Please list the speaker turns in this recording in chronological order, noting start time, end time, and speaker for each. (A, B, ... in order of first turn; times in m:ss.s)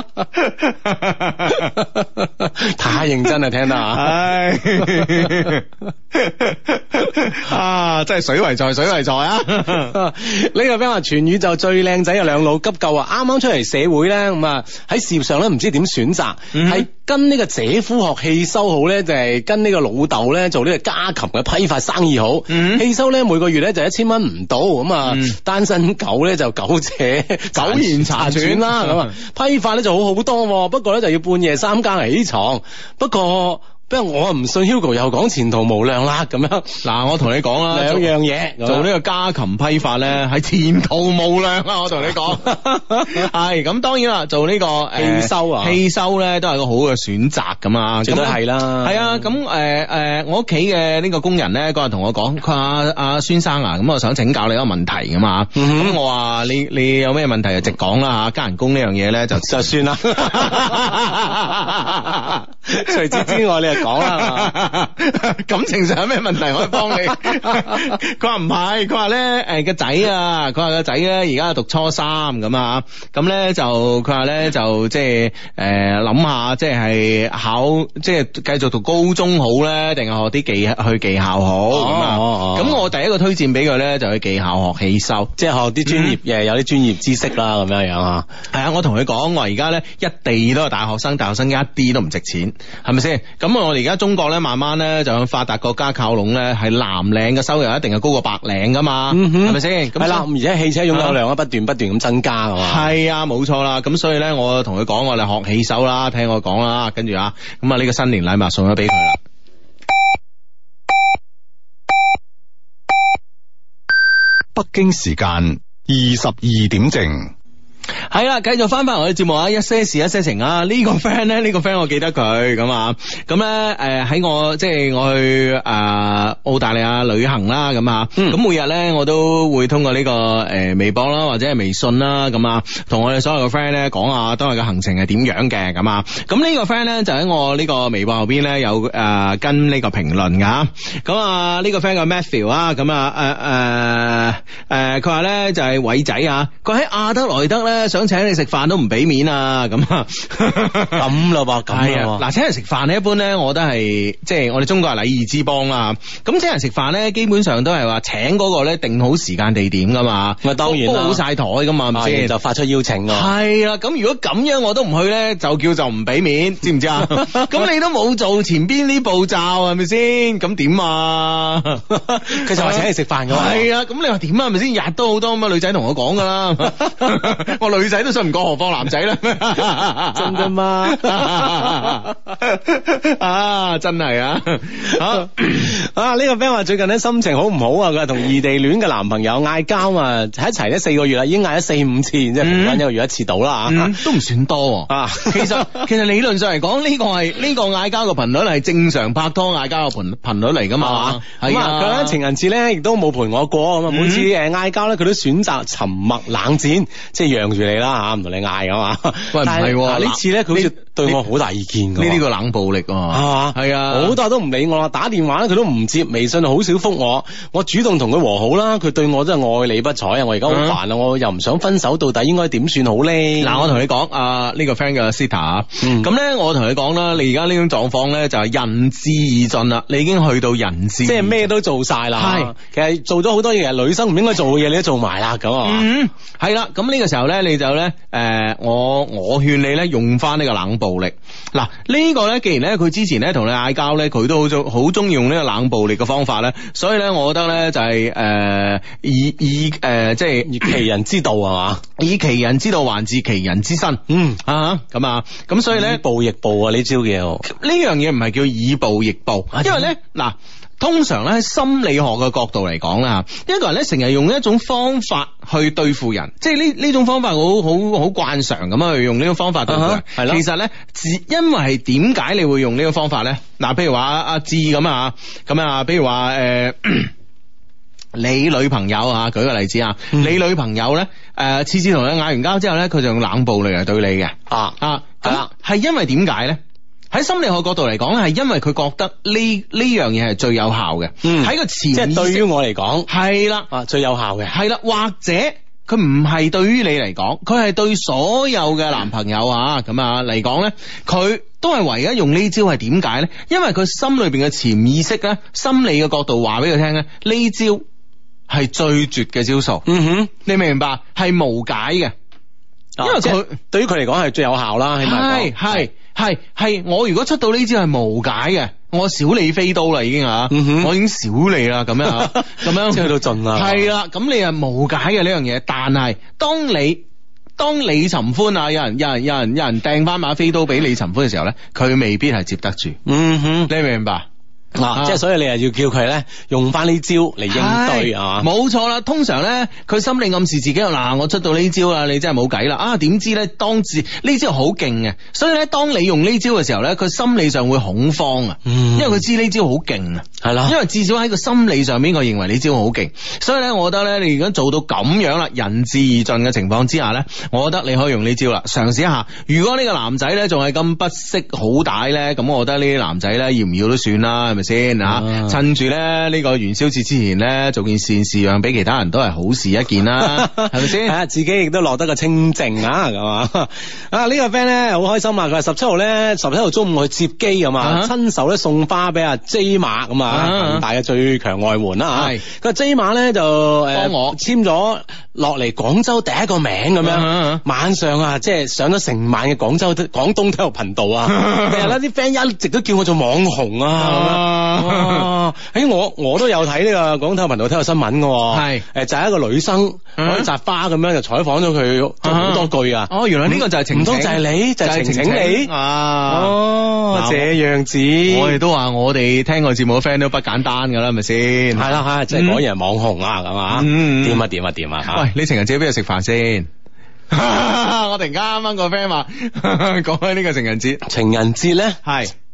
0:00.3-0:01.8 A
0:01.5-0:04.1 B
0:03.8-0:10.0 A
0:04.8-0:05.5 B
0:09.8-0:36.8 B
0:16.5-0:16.9 A
0:22.5-0:22.8 A
0:25.0-0:25.3 A
0:27.5-0:29.1 A
0:36.8-0:38.1 A
0:37.7-0:38.9 B
0:38.6-1:25.3 A
0:42.4-0:43.2 B
0:44.9-0:45.8 B
0:48.0-0:49.1 B
0:55.6-0:56.0 B
0:59.4-1:00.9 B
1:02.6-1:04.5 B
1:07.1-1:07.9 B
1:21.7-1:22.8 B
1:25.4-1:28.2 B
1:25.8-1:26.2 A
1:28.5-1:40.3 A
1:39.1-1:42.9 B
1:40.9-1:41.2 A
1:42.6-1:49.2 A
1:54.5-1:57.3 C
1:58.1-2:31.1 A
2:30.9-2:32.2 B
2:31.7-2:42.3 A
2:40.4-2:41.2 B
2:41.9-2:43.3 B
2:43.1-3:05.7 A
2:47.0-2:47.6 B
2:52.1-2:53.7 B
3:00.1-3:01.9 B
3:05.5-3:14.1 B
3:12.4-3:12.8 A
3:13.7-3:22.2 A
3:14.9-3:15.9 B
3:20.8-3:32.2 B
3:23.9-3:24.3 A
3:29.3-3:31.2 A
3:32.0-3:34.2 A
3:33.1-3:43.8 B
3:40.5-3:40.8 A
3:43.4-3:51.5 A
3:45.8-3:46.1 B
3:51.0-3:55.9 B
3:52.2-3:52.5 A
3:55.6-4:10.8 A
4:10.4-4:11.8 B
4:12.0-4:16.0 A
4:14.1-4:14.4 B
4:15.7-4:17.4 B
4:17.4-4:37.1 A
4:19.5-4:19.9 B
4:29.7-4:30.4 B
4:38.1-4:46.6 A
4:44.5-4:45.5 B
4:47.1-4:52.5 A
4:51.2-4:53.1 B
4:53.1-4:53.7 A
4:53.7-4:54.6 B
4:54.5-5:07.8 A
5:08.5-5:09.8 A
5:09.8-5:10.3 B
5:10.4-5:12.1 A
5:13.0-5:15.8 B
5:13.0-5:13.5 A
5:15.0-5:27.0 A
5:20.5-5:20.9 B
5:22.0-5:23.9 B
5:27.6-5:33.0 A
5:33.0-5:33.7 B
5:33.7-5:34.3 A
5:34.8-5:38.5 B
5:34.9-5:35.2 A
5:37.5-6:11.1 A
5:48.6-5:49.2 B
5:50.4-5:50.8 B
6:05.0-6:05.6 B
6:10.2-6:45.7 B
6:17.8-6:18.1 A
6:20.3-6:20.8 A
6:22.1-6:22.4 A
6:23.9-6:24.4 A
6:27.0-6:27.6 A
6:31.3-6:31.9 A
6:34.0-6:35.3 A
6:38.5-6:38.8 A
6:40.2-6:40.5 A
6:42.2-6:46.5 A
6:46.3-6:48.6 B
6:47.1-6:47.5 A
6:48.2-6:52.6 A
6:51.7-6:55.2 B
6:53.7-6:54.4 A
6:55.1-6:56.7 A
6:57.3-7:01.0 A
7:01.0-7:02.0 B
7:02.0-7:02.3 A